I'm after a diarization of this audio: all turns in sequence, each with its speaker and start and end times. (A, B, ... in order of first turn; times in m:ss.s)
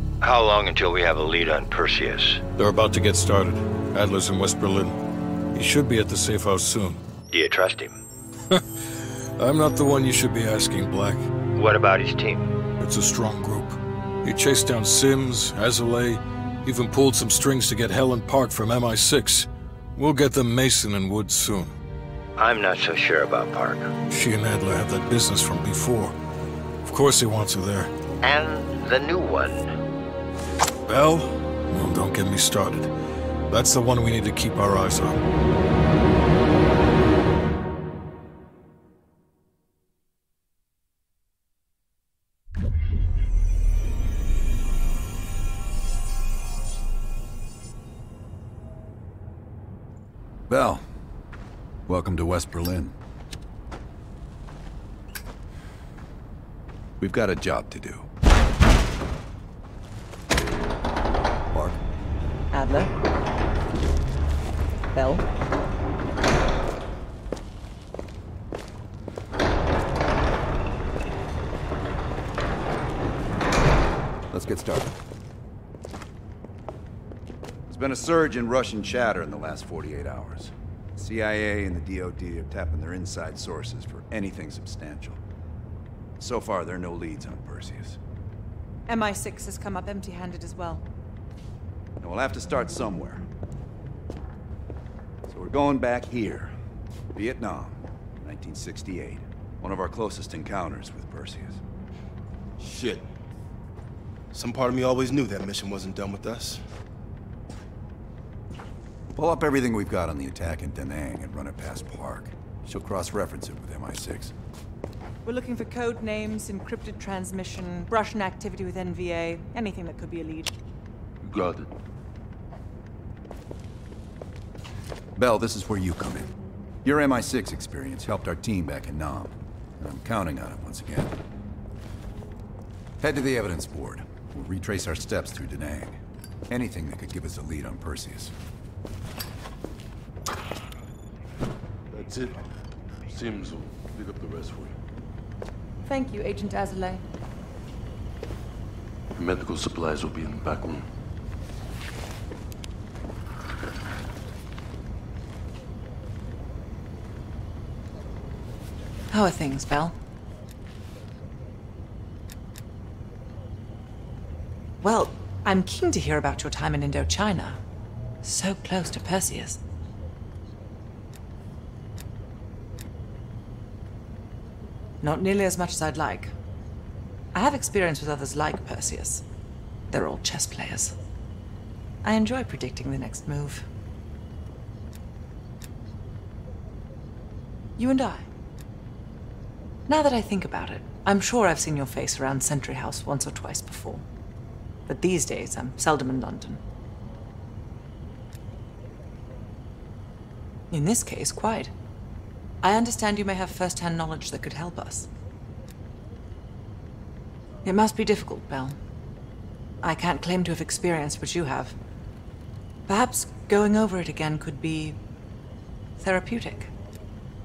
0:00.2-0:02.4 A
0:02.6-0:05.0 B
0:05.5-0:07.0 B
0:07.3-0:08.0 A
0:08.5-0:08.8 B
0:09.4-0:11.3 B
0:11.5-0:12.5 A
0:12.8-0:21.7 B
0:22.4-0:23.9 A
0:24.1-0:26.1 B
0:26.8-0:27.9 B
0:28.2-0:29.7 A
0:30.8-0:32.9 B
0:33.5-0:35.2 B
0:50.5-0:50.8 C
0:51.9-0:52.9 C
0:57.0-0:58.1 C
1:01.5-1:01.8 C
1:02.5-1:02.9 D
1:04.9-1:05.2 D
1:14.3-1:14.9 C
1:17.7-1:25.2 C
1:26.2-1:28.0 C
1:28.9-1:30.8 D
1:32.0-1:33.2 C
1:35.3-1:36.5 C
1:37.1-1:41.6 C
1:42.6-1:43.0 E
1:44.3-1:46.6 E
1:49.1-1:54.3 C
1:55.2-2:00.5 D
2:01.2-2:01.7 F
2:05.2-2:06.3 C
2:06.8-2:11.1 C
2:13.0-2:16.0 C
2:16.5-2:18.3 C
2:21.9-2:22.4 F
2:23.1-2:24.7 F
2:25.8-2:27.0 D
2:29.2-2:30.8 F
2:39.1-2:40.0 D
2:44.8-2:47.6 D
2:48.2-2:49.6 D
2:55.0-2:56.3 D
2:57.3-2:59.2 D
2:59.9-3:00.9 D
3:02.0-3:03.6 D
3:07.8-3:08.3 D
3:09.9-3:14.0 D
3:14.9-3:16.6 D
3:20.7-3:21.7 D
3:22.6-3:25.1 D
3:27.6-3:28.8 D
3:29.8-3:31.8 D
3:32.9-3:35.0 D
3:36.0-3:36.7 D